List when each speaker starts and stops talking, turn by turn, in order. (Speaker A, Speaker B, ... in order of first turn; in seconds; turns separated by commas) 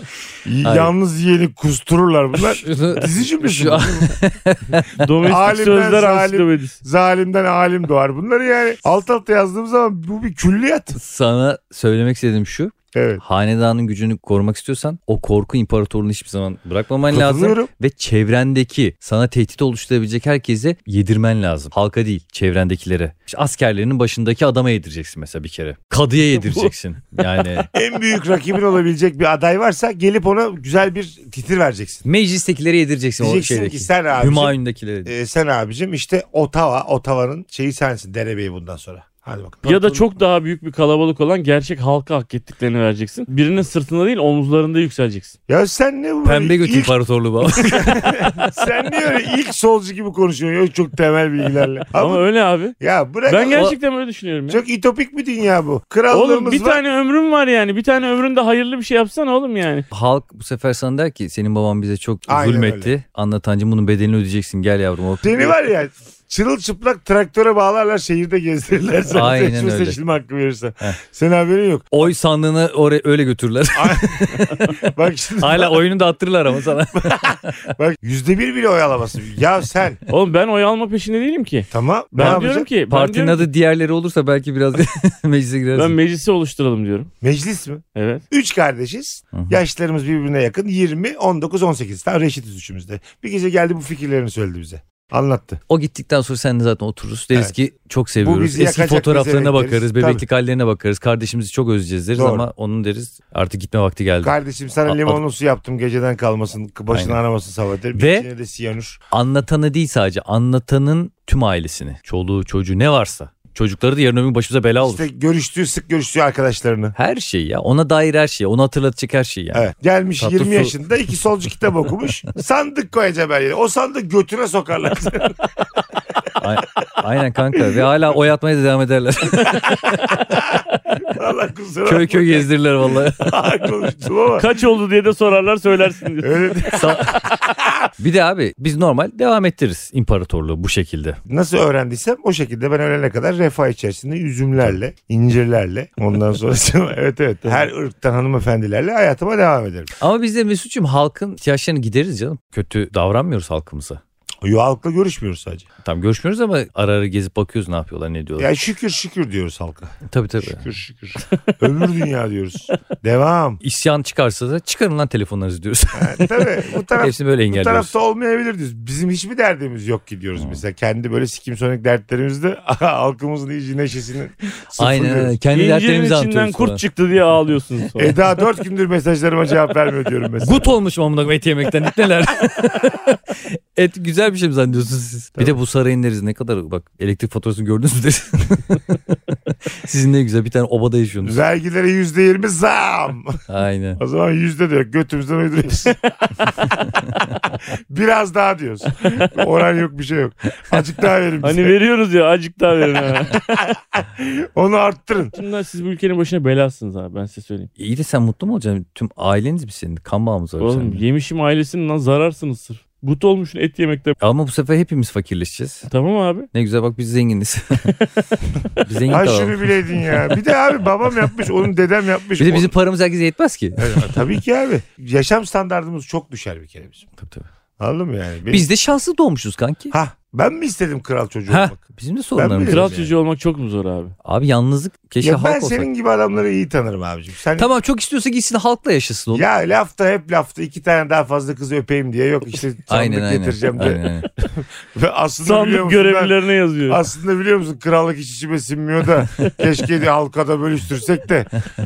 Speaker A: 0.4-4.2, Speaker B: 0.6-0.9, Speaker B: 2.4-5.1, Speaker C: 5.0-6.8, Speaker A: 5.2-10.9, Speaker B: 10.9-27.7, Speaker A: 12.9-13.2, Speaker A: 17.1-17.7, Speaker C: 26.3-26.7, Speaker A: 27.7-32.0, Speaker B: 32.0-35.1, Speaker A: 33.2-40.0, Speaker C: 39.6-45.3, Speaker A: 45.5-46.9, Speaker B: 46.2-48.1, Speaker A: 47.8-52.2, Speaker C: 52.0-52.8, Speaker A: 52.8-53.8, Speaker C: 53.3-54.6, Speaker A: 54.5-56.8, Speaker C: 56.1-59.9, Speaker B: 59.9-65.6, Speaker A: 62.3-62.9, Speaker A: 65.2-71.9, Speaker B: 69.1-70.0, Speaker B: 71.9-74.8, Speaker A: 73.7-75.8, Speaker B: 75.4-77.7, Speaker A: 76.9-80.0, Speaker C: 80.1-83.5, Speaker A: 81.7-82.7, Speaker B: 82.2-85.9, Speaker C: 85.7-87.1, Speaker A: 87.2-95.6, Speaker C: 87.9-88.2, Speaker B: 89.3-89.6, Speaker B: 95.7-105.2, Speaker A: 98.2-100.2, Speaker A: 102.1-102.5, Speaker A: 104.2-109.0, Speaker B: 106.9-107.2, Speaker B: 107.9-108.3, Speaker B: 109.1-115.0, Speaker A: 114.8-116.9, Speaker B: 117.0-120.9, Speaker A: 119.5-125.6, Speaker B: 126.4-130.4, Speaker A: 129.5-134.5, Speaker B: 131.8-133.3, Speaker C: 134.4-136.5, Speaker A: 136.2-137.9, Speaker B: 136.7-137.3, Speaker B: 138.0-141.2, Speaker A: 141.3-149.9, Speaker B: 150.0-154.0, Speaker A: 154.4-155.7, Speaker B: 155.8-158.5, Speaker A: 158.4-159.9, Speaker B: 160.1-160.7, Speaker A: 160.5-163.6, Speaker B: 163.6-166.4, Speaker A: 165.9-175.4, Speaker B: 167.0-167.9, Speaker B: 174.8-176.8, Speaker C: 175.5-178.1, Speaker A: 178.0-180.7, Speaker B: 180.4-189.2, Speaker B: 189.7-191.4, Speaker A: 191.2-193.4, Speaker B: 193.5-194.0, Speaker A: 194.0-201.7, Speaker C: 201.4-203.6, Speaker A: 203.6-205.3, Speaker C: 205.3-207.7, Speaker B: 207.8-211.0, Speaker C: 210.6-214.2, Speaker B: 214.2-215.8, Speaker C: 215.9-216.5, Speaker B: 216.5-217.8, Speaker B: 218.8-219.6, Speaker A: 219.1-222.7, Speaker B: 222.4-224.2, Speaker A: 223.8-227.1, Speaker B: 227.2-227.5, Speaker A: 227.8-228.7, Speaker B: 228.5-229.9, Speaker A: 229.9-231.8, Speaker B: 231.5-233.0, Speaker A: 232.3-233.1, Speaker C: 232.7-234.1, Speaker B: 234.2-235.9, Speaker A: 235.2-237.7, Speaker B: 237.6-239.4, Speaker A: 239.3-244.0, Speaker B: 242.9-244.3, Speaker A: 244.5-251.5, Speaker C: 245.4-247.0